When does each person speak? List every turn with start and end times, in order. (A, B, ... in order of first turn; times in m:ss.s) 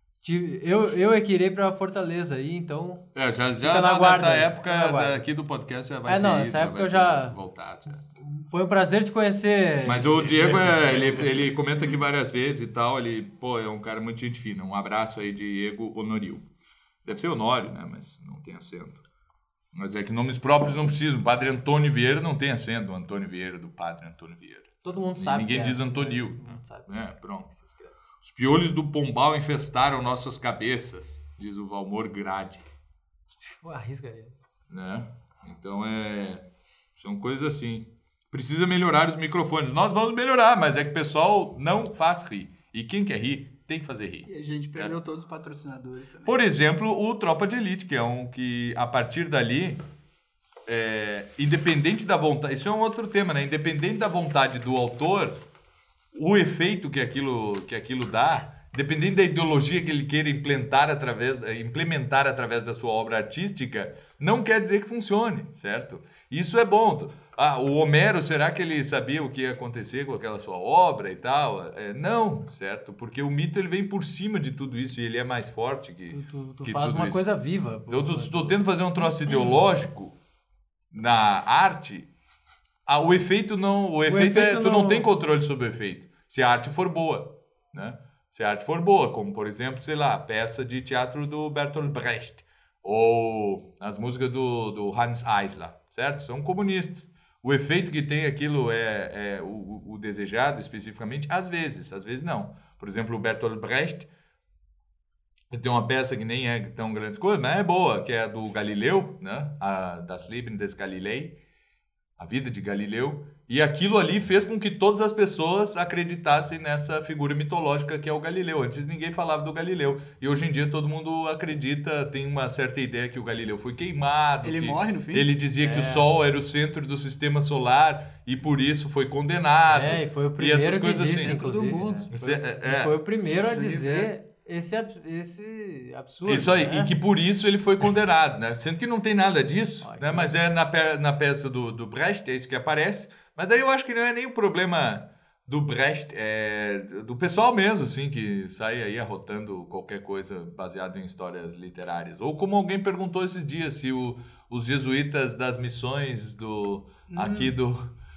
0:00.2-0:03.0 A
0:03.1-0:08.0 B
0:03.6-0:05.2 A
0:06.1-0:07.4 A
0:08.2-0:11.3 A
0:09.8-0:16.4 B
0:17.0-0:19.0 B
0:19.7-0:27.5 B
0:24.8-0:27.9 A
0:28.2-0:32.7 B
0:33.3-0:34.3 A
0:34.7-0:36.4 B
0:37.0-0:44.9 B
0:44.2-0:46.4 C
0:46.2-0:49.8 B
0:50.6-0:55.4 B
0:56.1-1:17.2 B
1:16.1-1:18.6 A
1:17.9-1:20.2 B
1:20.9-1:22.1 B
1:22.8-1:44.1 B
1:24.1-1:25.1 A
1:45.5-1:51.4 B
1:52.2-2:12.9 B
2:04.4-2:05.3 C
2:05.6-2:06.1 A
2:09.7-2:16.9 A
2:11.1-2:12.1 C
2:13.5-2:14.2 C
2:16.2-2:37.8 B
2:19.8-2:20.3 A
2:37.1-2:37.5 C